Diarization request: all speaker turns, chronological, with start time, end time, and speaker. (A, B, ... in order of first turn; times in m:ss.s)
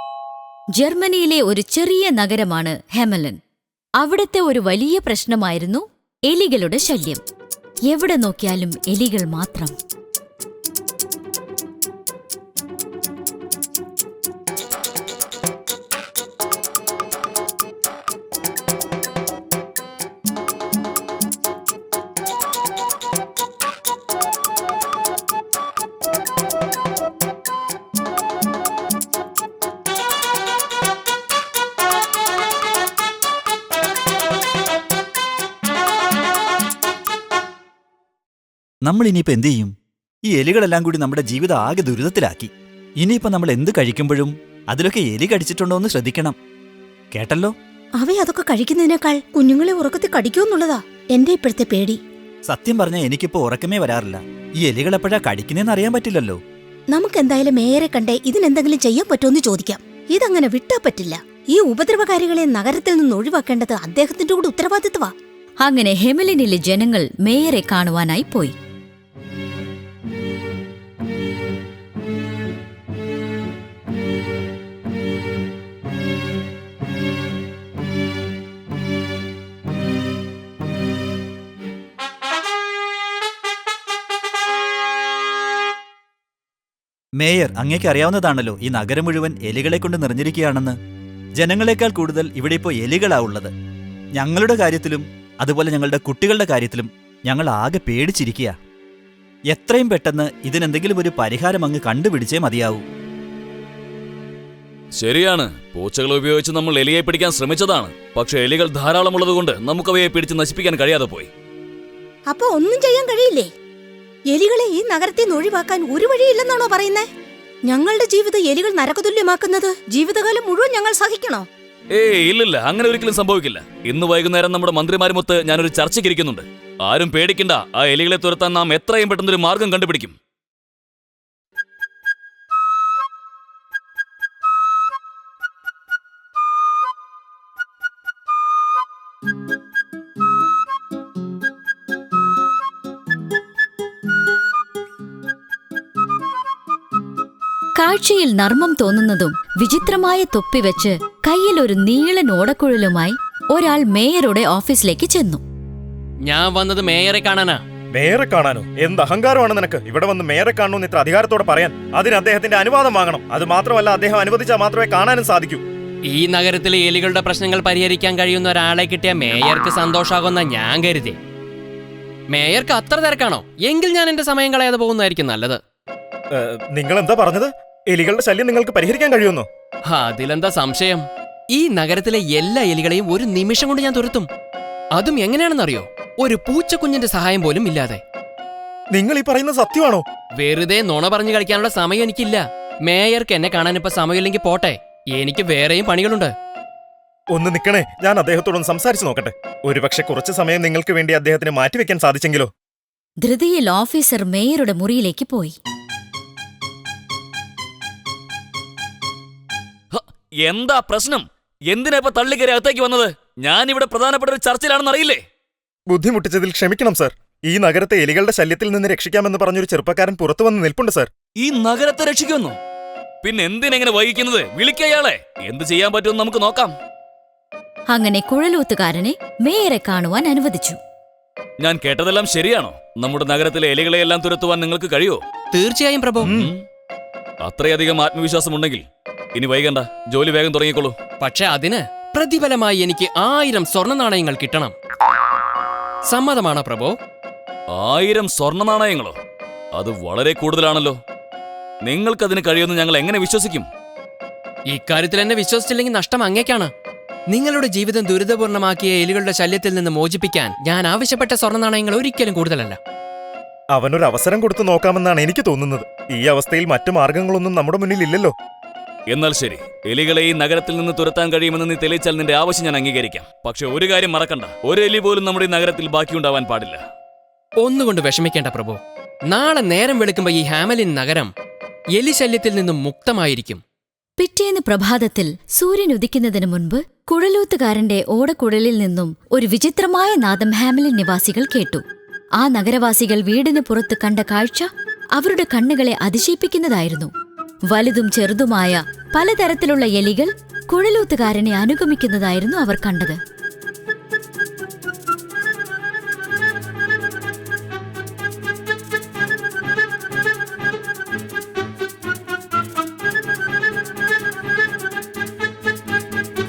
0:00.8-0:03.4 A
0:04.0-0:07.2 A
0:07.9-0:09.7 A
0:38.8-0:39.7 B
0:40.3-0:46.4 B
0:47.1-0:47.5 B
0:48.0-0:52.0 C
0:52.5-0:56.4 B
0:56.9-1:05.1 C
1:05.6-1:08.5 A
1:27.2-1:30.8 B
1:31.4-1:33.5 B
1:34.2-1:38.6 B
1:39.5-1:42.8 B
1:45.0-1:51.3 D
1:52.3-1:53.5 C
1:54.3-1:57.1 C
1:57.7-2:01.5 C
2:01.9-2:10.1 D
2:27.8-2:35.4 A
2:36.2-2:37.6 E
2:37.9-2:45.6 F
2:46.0-2:51.2 E
2:52.3-2:55.6 E
2:56.3-2:59.5 F
2:59.9-3:04.3 E
3:04.9-3:08.0 E
3:08.9-3:10.0 F
3:10.4-3:16.3 E
3:17.3-3:22.5 F
3:23.2-3:25.6 A
3:29.9-3:35.2 D
3:35.9-3:41.1 F
3:41.4-3:42.6 D
3:43.2-3:46.7 D
3:47.9-3:50.8 A
3:51.6-3:55.2 D
3:55.5-3:56.5 E
3:56.2-3:56.6 D
3:57.4-3:58.8 D
3:59.4-4:01.0 D
4:01.2-4:04.7 E
4:06.1-4:07.0 E
4:07.7-4:09.2 D
4:09.7-4:11.0 D
4:11.8-4:13.7 D
4:14.7-4:16.7 E
4:17.3-4:22.8 E
4:23.7-4:28.3 F
4:29.1-4:36.8 D
4:37.6-4:41.3 E
4:42.0-4:43.6 E
4:44.2-4:51.8 A
4:52.4-4:57.1 A
4:57.7-5:03.2 A